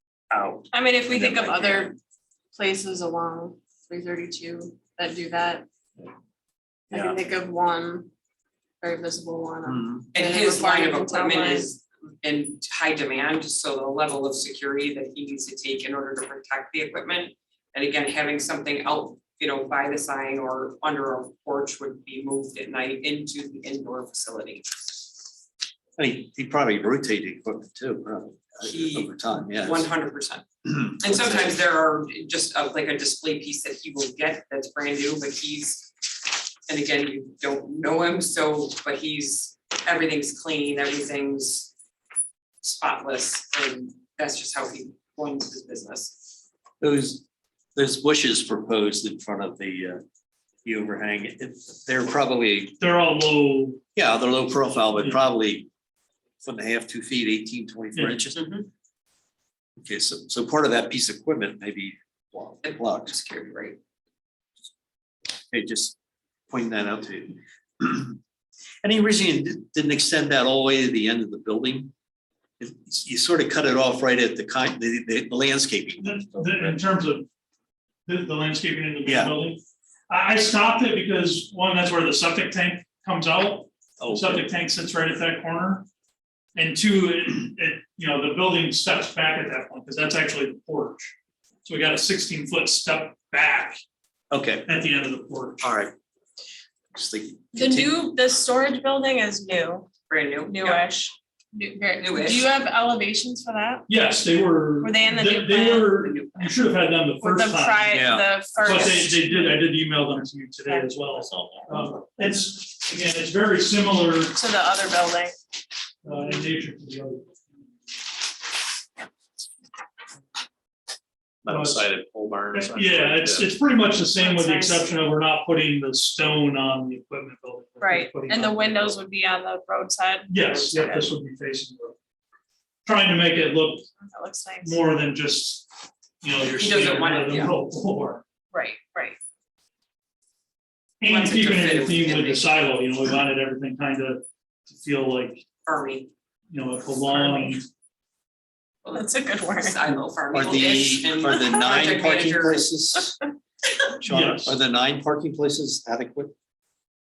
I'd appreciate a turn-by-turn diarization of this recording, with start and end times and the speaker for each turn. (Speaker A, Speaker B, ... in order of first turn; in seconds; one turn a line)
Speaker A: 0.3-1.9
Speaker B: 0.7-1.9
Speaker B: 2.5-5.6
Speaker A: 6.9-7.2
Speaker B: 6.9-8.1
Speaker B: 8.8-11.7
Speaker C: 9.7-10.0
Speaker D: 10.1-24.6
Speaker C: 26.0-29.9
Speaker D: 28.6-41.7
Speaker D: 42.6-46.3
Speaker C: 46.8-50.0
Speaker C: 50.6-52.8
Speaker E: 52.8-53.8
Speaker C: 53.9-55.7
Speaker C: 56.4-58.4
Speaker E: 57.9-58.2
Speaker D: 58.3-58.7
Speaker C: 59.8-63.1
Speaker D: 62.6-63.8
Speaker C: 65.5-66.0
Speaker C: 66.5-68.2
Speaker C: 68.8-71.9
Speaker C: 72.6-76.8
Speaker E: 76.0-77.2
Speaker E: 78.0-85.9
Speaker C: 79.0-79.3
Speaker C: 84.0-84.5
Speaker E: 86.5-91.1
Speaker E: 91.6-93.8
Speaker C: 94.3-94.7
Speaker E: 94.6-95.7
Speaker C: 95.6-95.9
Speaker C: 96.9-98.0
Speaker B: 97.5-99.9
Speaker D: 100.1-100.8
Speaker B: 100.5-103.9
Speaker D: 102.0-102.5
Speaker E: 103.9-114.4
Speaker B: 104.8-105.9
Speaker D: 105.9-106.6
Speaker B: 107.2-109.6
Speaker C: 107.9-108.3
Speaker B: 110.7-111.0
Speaker A: 111.1-111.8
Speaker B: 114.3-115.3
Speaker E: 116.0-117.3
Speaker A: 121.4-123.5
Speaker E: 121.5-121.9
Speaker E: 122.5-129.0
Speaker B: 124.2-124.9
Speaker B: 127.8-131.1
Speaker E: 130.3-131.9
Speaker E: 132.8-133.9
Speaker B: 134.0-134.8
Speaker E: 134.6-135.7
Speaker E: 136.2-138.2
Speaker D: 136.5-137.5
Speaker B: 138.5-139.2
Speaker E: 141.0-145.4
Speaker D: 141.0-142.5
Speaker D: 145.6-146.1
Speaker E: 146.5-147.6
Speaker D: 148.8-152.7
Speaker B: 148.9-149.8
Speaker C: 150.3-153.2
Speaker C: 154.0-156.3
Speaker E: 154.1-154.5